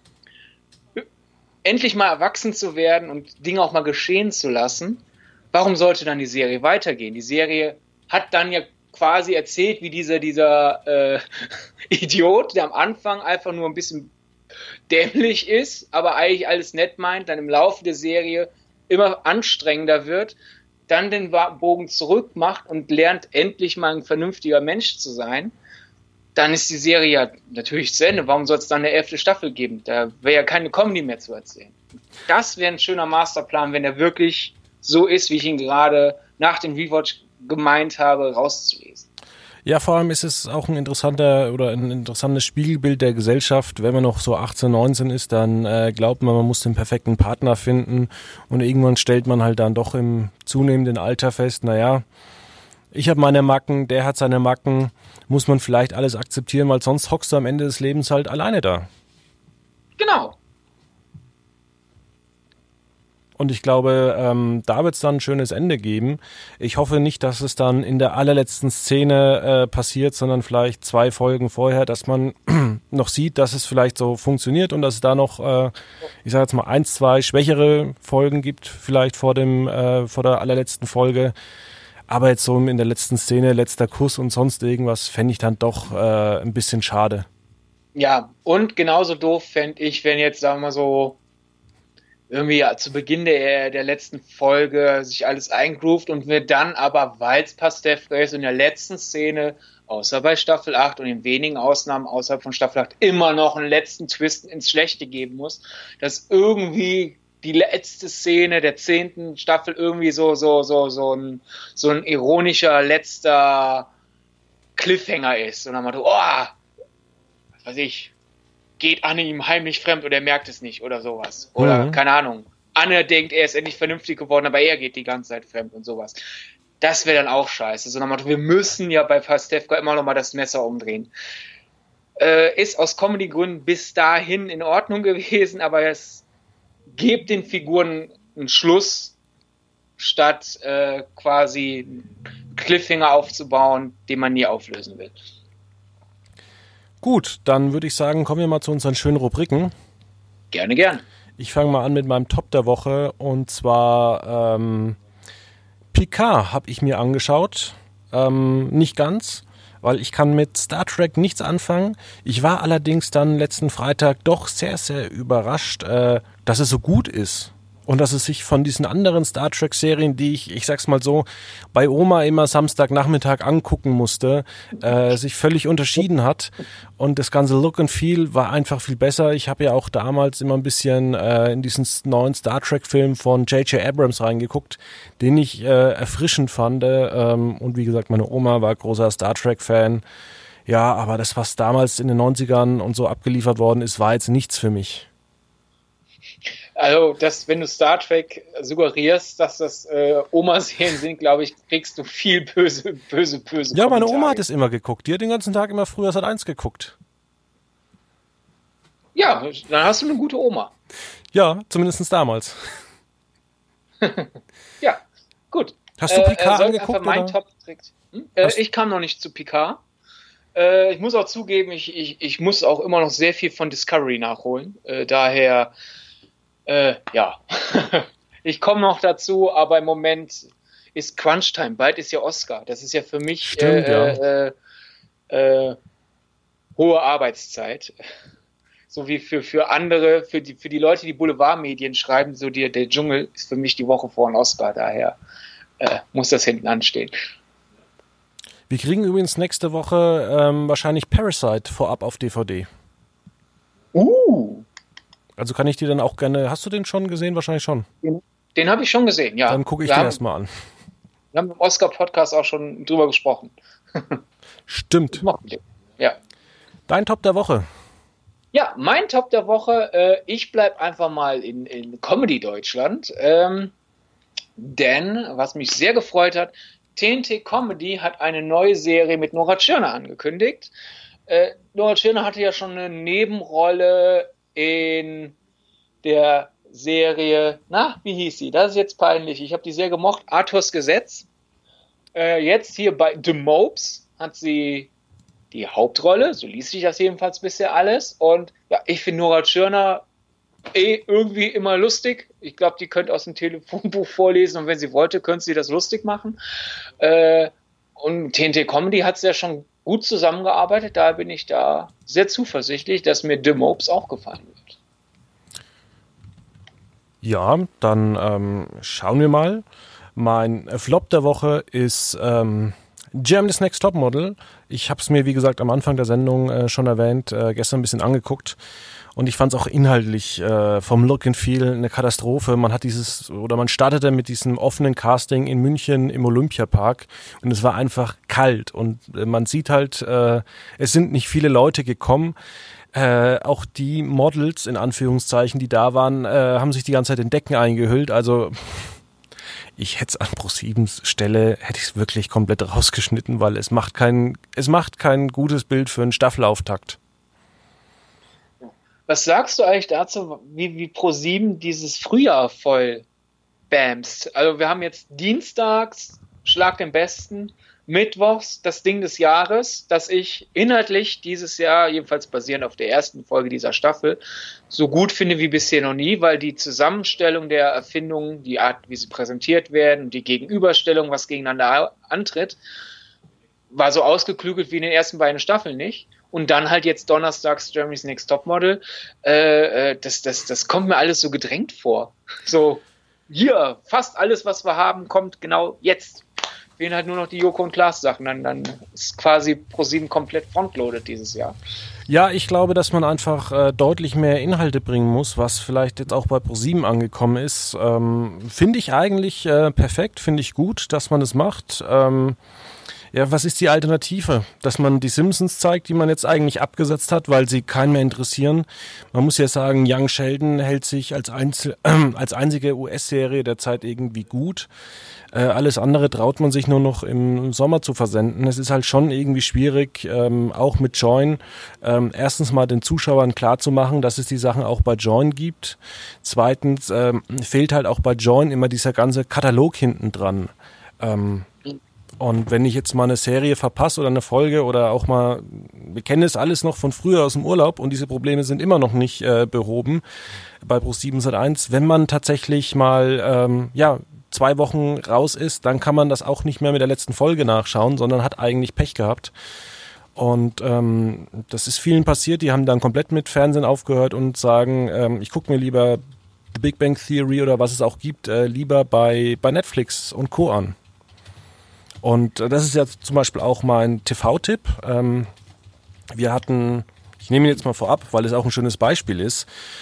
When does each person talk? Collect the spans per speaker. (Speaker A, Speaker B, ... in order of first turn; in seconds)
Speaker A: 1.6-14.1, 14.9-20.4, 20.9-25.6, 26.4-31.8, 32.3-39.1, 60.0-60.4, 88.0-91.2, 92.3-113.9, 114.8-116.6, 117.6-118.1, 118.8-126.2, 126.8-131.1, 132.2-136.2, 136.9-139.2, 140.0-145.2, 150.5-151.0, 196.8-204.4, 209.2-210.7, 214.0-219.8, 220.5-225.7, 226.7-234.6, 235.3-235.8, 236.8-237.9, 238.9-245.2, 245.8-247.1, 253.9-254.7, 258.0-260.2, 261.3-264.2, 265.1-266.2, 268.5-273.7, 274.6-280.7, 281.3-285.4, 286.0-291.3, 292.1-294.9, 295.5-300.1, 300.7-306.4, 307.0-314.8, 358.6-363.1, 363.7-382.6, 383.7-396.2, 396.8-401.6
Speaker B: 39.6-52.0, 52.9-58.9, 63.4-75.7, 76.2-81.3, 82.1-87.3, 121.6-122.0, 147.0-149.7, 151.4-155.0, 155.9-190.0, 190.7-195.1, 203.7-207.0, 211.3-212.6, 216.0-217.4, 233.4-234.2, 248.7-252.7, 255.4-257.9, 259.5-260.5, 264.7-265.3, 266.9-267.7, 317.2-319.6, 320.2-328.6, 329.1-342.4, 342.9-349.0, 349.8-357.0, 402.1-412.4, 413.1-424.7, 425.3-441.5, 442.2-450.0, 450.6-459.3, 460.2-466.0, 466.5-470.8, 472.0-475.3, 476.2-479.4